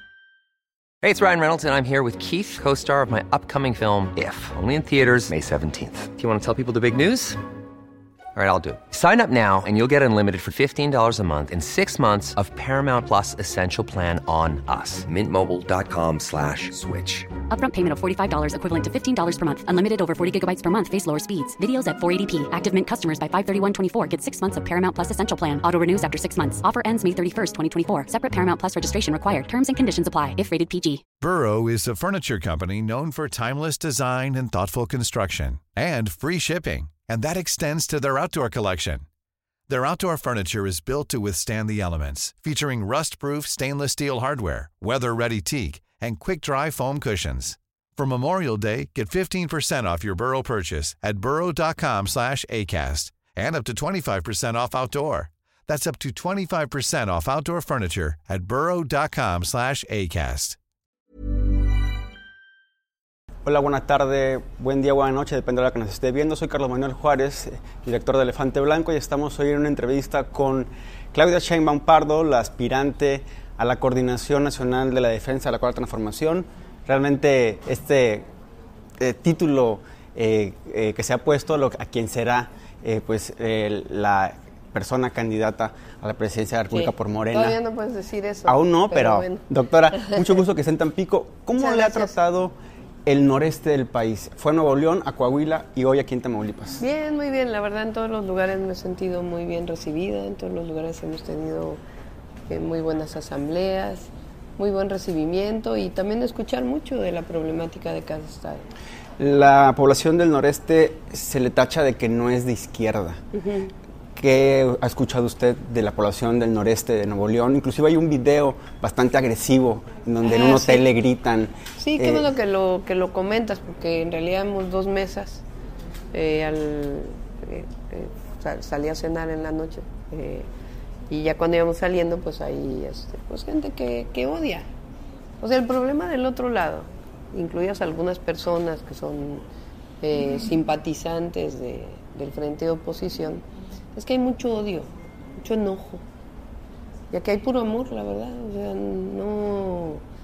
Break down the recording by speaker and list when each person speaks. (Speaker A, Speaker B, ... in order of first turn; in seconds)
Speaker A: 1.0-7.4, 8.3-17.3
Speaker B: 17.5-31.0
Speaker C: 31.2-39.0, 39.7-60.6
Speaker D: 63.5-78.2, 79.0-87.6, 88.5-92.5, 93.0-96.8, 109.2-113.2, 114.2-122.3
Speaker E: 86.7-90.2, 91.6-92.1, 96.8-101.8, 102.5-108.7, 113.3-113.7, 120.2-120.8, 121.8-125.4, 126.1-130.5, 131.1-134.7, 135.4-139.4, 140.0-143.4, 143.9-146.0, 147.1-150.0